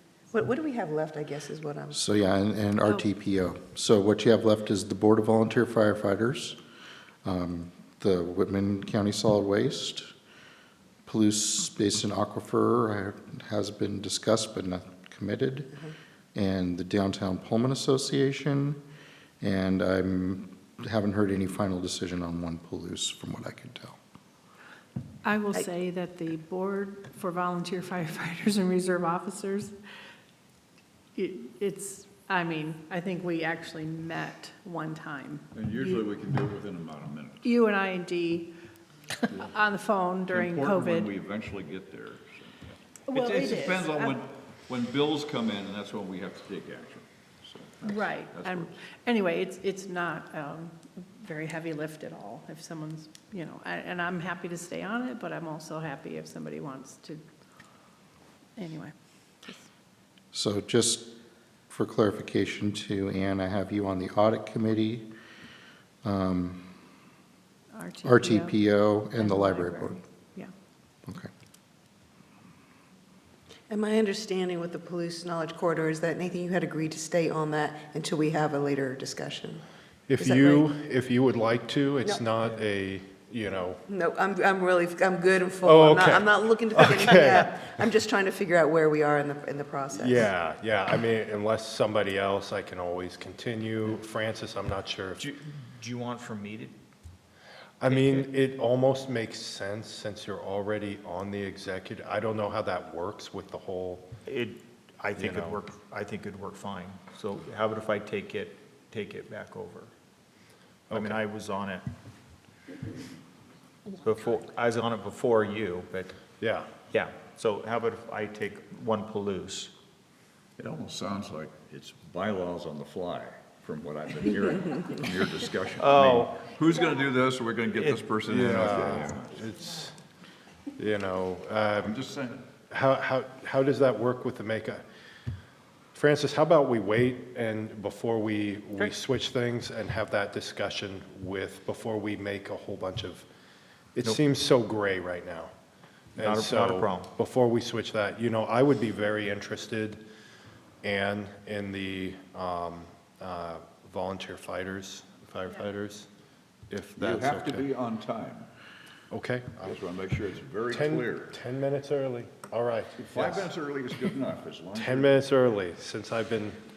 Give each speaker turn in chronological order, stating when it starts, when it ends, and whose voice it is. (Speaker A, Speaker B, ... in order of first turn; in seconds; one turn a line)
Speaker A: 0.3-2.0
Speaker B: 1.9-6.6
Speaker B: 7.2-10.1
Speaker B: 11.1-15.8
Speaker B: 16.3-18.8
Speaker B: 19.4-24.0
Speaker C: 25.2-29.7
Speaker C: 31.1-36.0
Speaker D: 35.5-37.5
Speaker C: 37.4-38.5
Speaker C: 39.3-41.1
Speaker D: 40.3-48.7
Speaker C: 43.1-44.1
Speaker C: 47.8-57.2
Speaker C: 58.6-58.9
Speaker B: 60.3-61.1
Speaker B: 61.7-65.1
Speaker B: 66.0-66.7
Speaker C: 67.7-68.6
Speaker B: 68.0-70.0
Speaker C: 69.1-70.5
Speaker A: 73.7-79.6
Speaker E: 80.1-83.8
Speaker A: 80.2-80.7
Speaker A: 83.9-90.3
Speaker E: 85.6-87.7
Speaker E: 89.9-95.2
Speaker F: 95.2-96.7
Speaker E: 97.8-104.1
Speaker F: 97.9-98.3
Speaker F: 104.2-109.9
Speaker E: 105.1-105.6
Speaker E: 110.9-111.2
Speaker F: 110.9-111.8
Speaker F: 114.0-116.2
Speaker E: 116.4-116.7
Speaker F: 116.9-119.7
Speaker D: 120.6-129.4
Speaker F: 125.8-126.5
Speaker F: 127.8-128.1
Speaker E: 128.2-129.9
Speaker E: 130.8-132.0
Speaker D: 131.8-132.5
Speaker E: 132.7-134.8
Speaker E: 135.9-143.3
Speaker E: 143.9-145.5
Speaker E: 146.2-150.0
Speaker F: 146.2-147.1
Speaker E: 150.8-156.1
Speaker E: 156.7-157.7
Speaker D: 156.9-158.5
Speaker E: 159.1-159.8
Speaker D: 159.6-161.4
Speaker E: 160.7-163.5
Speaker D: 163.0-165.3
Speaker E: 164.7-166.6